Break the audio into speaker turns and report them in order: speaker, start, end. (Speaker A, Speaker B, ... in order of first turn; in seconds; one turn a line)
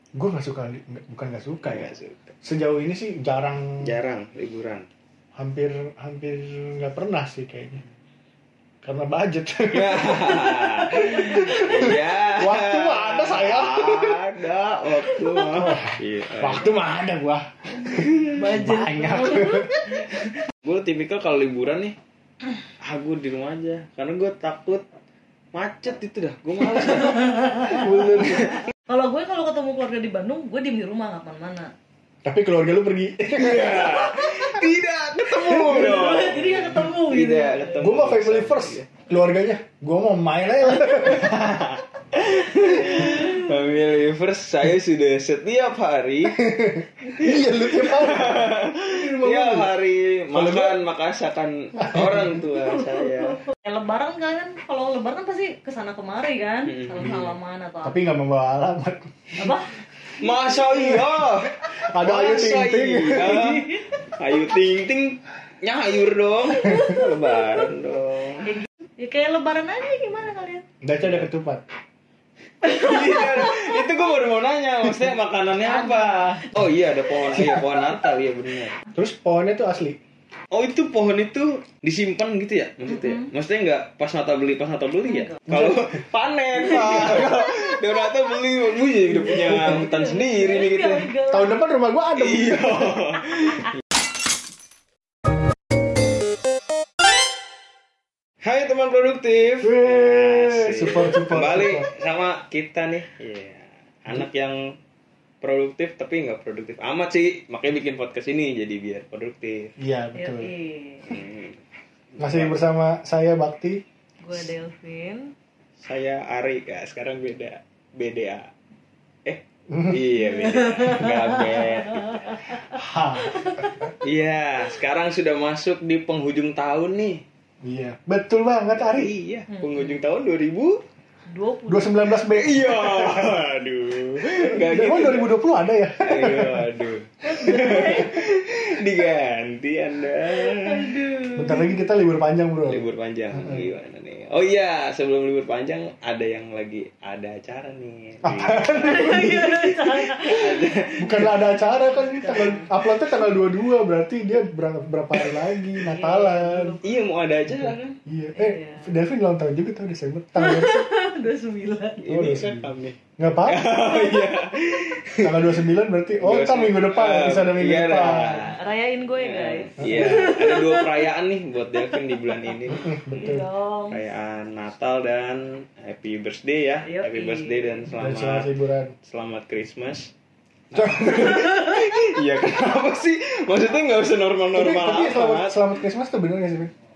Speaker A: 0.1-1.9
Speaker B: 1.6-2.3
Speaker A: 2.4-3.9
Speaker B: 3.8-4.9
Speaker A: 5.3-7.8
Speaker A: 8.8-14.2
Speaker B: 9.7-16.7
Speaker C: 11.2-11.7
Speaker C: 15.1-15.7
Speaker A: 15.4-20.0
Speaker B: 17.8-18.4
Speaker C: 18.3-19.8
Speaker B: 20.1-21.9
Speaker B: 22.8-24.8
Speaker B: 25.5-28.6
Speaker C: 26.9-27.9
Speaker A: 27.7-28.5
Speaker C: 28.9-31.7
Speaker A: 32.2-34.6
Speaker B: 33.3-38.9
Speaker A: 35.4-35.9
Speaker C: 35.5-37.9
Speaker A: 37.8-41.7
Speaker C: 40.8-41.3
Speaker B: 41.1-46.4
Speaker C: 42.8-43.4
Speaker A: 46.3-49.7
Speaker B: 47.1-53.4
Speaker A: 50.3-50.8
Speaker A: 51.8-52.4
Speaker C: 52.7-58.0
Speaker B: 56.6-57.2
Speaker A: 57.0-59.5
Speaker C: 59.4-59.7
Speaker B: 60.2-68.5
Speaker A: 60.7-61.2
Speaker A: 61.7-63.6
Speaker C: 63.1-63.9
Speaker C: 66.5-67.6
Speaker C: 68.4-70.6
Speaker A: 70.8-71.6
Speaker B: 72.6-78.8
Speaker C: 72.6-73.8
Speaker C: 75.6-76.5
Speaker A: 77.3-77.7
Speaker A: 78.9-80.0
Speaker B: 80.5-91.1
Speaker C: 82.9-83.3
Speaker C: 85.0-85.4
Speaker A: 85.5-85.9
Speaker C: 86.8-87.3
Speaker A: 89.2-89.8
Speaker C: 89.4-91.6
Speaker A: 91.3-93.0
Speaker B: 92.2-93.8
Speaker B: 98.4-104.7
Speaker A: 99.6-101.8
Speaker B: 105.4-109.7
Speaker A: 109.8-110.5
Speaker C: 110.2-111.2
Speaker B: 111.0-111.6
Speaker B: 112.1-112.6
Speaker A: 112.2-113.8
Speaker C: 114.2-115.3
Speaker B: 115.8-118.5
Speaker B: 119.2-122.3
Speaker A: 119.7-120.0
Speaker C: 120.3-123.8
Speaker A: 122.7-123.9
Speaker B: 124.0-127.2
Speaker A: 127.6-129.1
Speaker B: 128.7-130.8
Speaker C: 129.5-130.0
Speaker C: 131.3-131.9
Speaker A: 131.7-133.4
Speaker B: 132.3-135.3
Speaker A: 134.2-136.7
Speaker B: 136.0-141.1
Speaker C: 137.2-138.3
Speaker C: 140.3-141.8
Speaker A: 141.3-143.7
Speaker B: 142.7-149.5
Speaker A: 148.2-150.2
Speaker C: 148.7-150.7
Speaker B: 150.1-151.5
Speaker A: 151.0-156.8
Speaker C: 152.0-152.7
Speaker C: 155.8-157.0
Speaker B: 156.8-158.0
Speaker A: 157.5-160.8
Speaker C: 158.3-158.9
Speaker C: 160.3-162.0
Speaker B: 162.0-165.6
Speaker A: 162.1-163.8
Speaker C: 164.1-164.3
Speaker A: 165.2-168.5
Speaker B: 166.2-168.6
Speaker C: 168.2-171.1
Speaker B: 169.2-173.4
Speaker A: 169.8-170.3
Speaker C: 171.9-172.5
Speaker A: 172.7-173.4
Speaker C: 173.1-174.0
Speaker B: 173.9-178.5
Speaker C: 176.8-177.8
Speaker A: 178.0-178.9
Speaker B: 179.0-180.1
Speaker B: 180.7-185.6
Speaker A: 180.7-181.5
Speaker A: 184.5-186.7